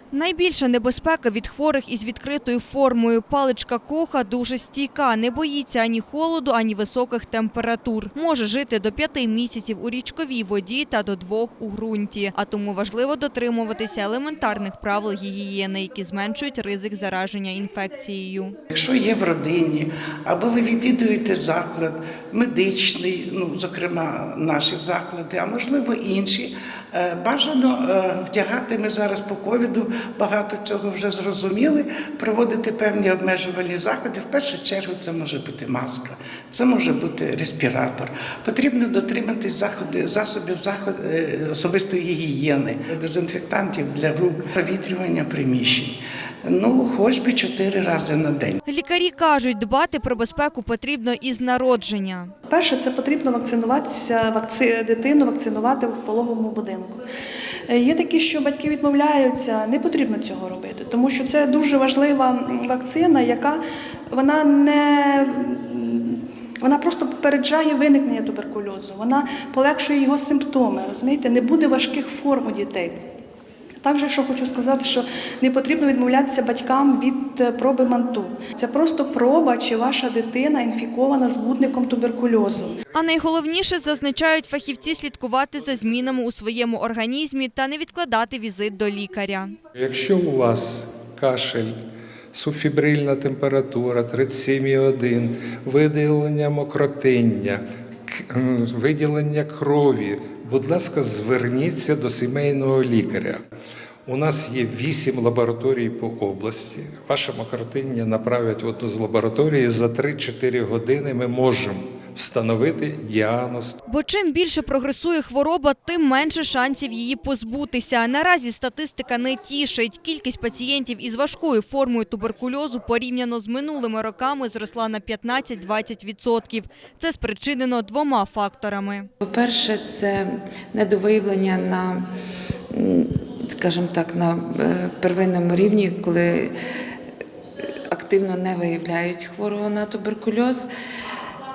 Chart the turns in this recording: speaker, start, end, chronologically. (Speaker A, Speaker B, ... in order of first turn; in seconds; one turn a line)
Speaker A: 0.1-18.6
Speaker B: 18.7-45.9
Speaker B: 46.5-48.5
Speaker A: 48.7-52.3
Speaker C: 52.5-57.0
Speaker C: 57.7-63.6
Speaker C: 64.1-73.0
Speaker C: 73.8-82.8
Speaker A: 82.9-89.6
Speaker D: 89.8-91.7
Speaker D: 92.3-103.4
Speaker D: 104.1-113.8
Speaker A: 113.9-129.1
Speaker E: 129.2-132.1
Speaker E: 132.7-136.5
Speaker E: 137.9-140.7